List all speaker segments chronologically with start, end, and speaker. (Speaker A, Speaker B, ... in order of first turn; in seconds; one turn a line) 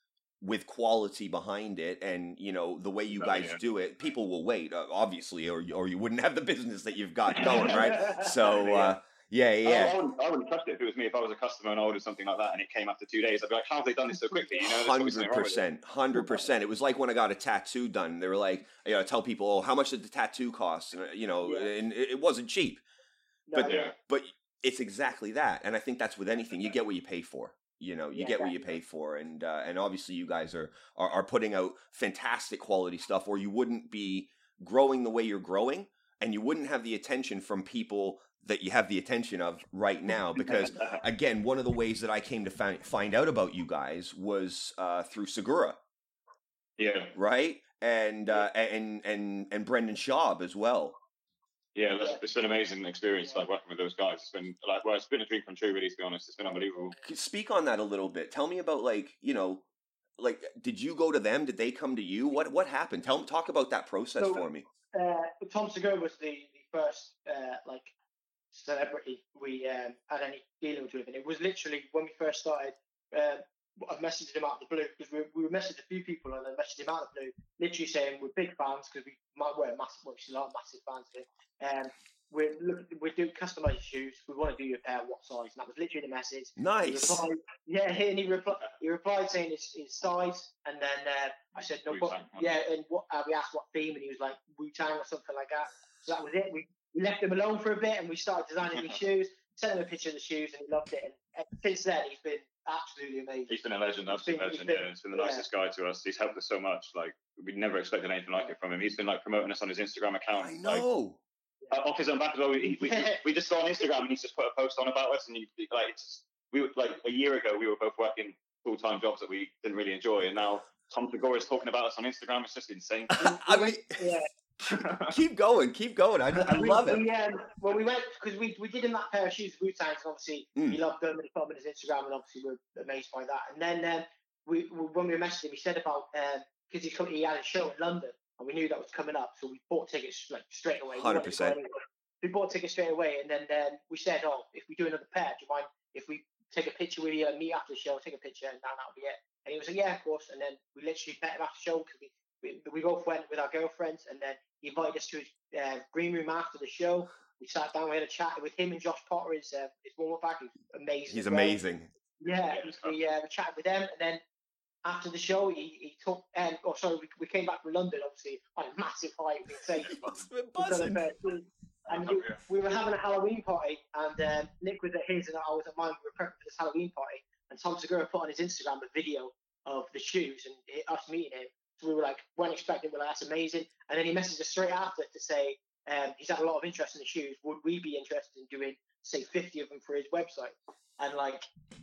Speaker A: 0.4-10.0
Speaker B: 3.1-3.6
Speaker B: 7.3-9.0
Speaker B: 9.6-15.6
Speaker A: 14.7-22.8
Speaker C: 21.4-21.7
Speaker C: 23.5-23.9
Speaker B: 23.6-23.9
Speaker A: 23.9-45.8
Speaker C: 28.1-28.6
Speaker B: 40.4-41.0
Speaker B: 46.8-47.1
Speaker A: 47.1-51.0
Speaker B: 51.8-56.9
Speaker C: 56.5-57.0
Speaker A: 57.0-59.7
Speaker A: 60.2-64.7
Speaker C: 64.2-67.9
Speaker C: 68.5-103.5
Speaker A: 86.6-87.2
Speaker B: 91.9-92.5
Speaker B: 103.5-110.8
Speaker C: 104.1-105.5
Speaker A: 110.4-111.2
Speaker B: 111.7-123.2
Speaker C: 112.9-113.2
Speaker A: 123.1-124.1
Speaker C: 123.2-124.3
Speaker B: 124.7-125.2
Speaker A: 124.7-127.0
Speaker C: 126.4-161.6
Speaker A: 140.9-141.6
Speaker A: 161.1-161.9
Speaker C: 162.2-164.2
Speaker B: 162.5-162.9
Speaker C: 164.8-169.9
Speaker B: 169.8-170.3
Speaker A: 169.8-171.0
Speaker C: 170.6-191.5
Speaker B: 171.9-172.4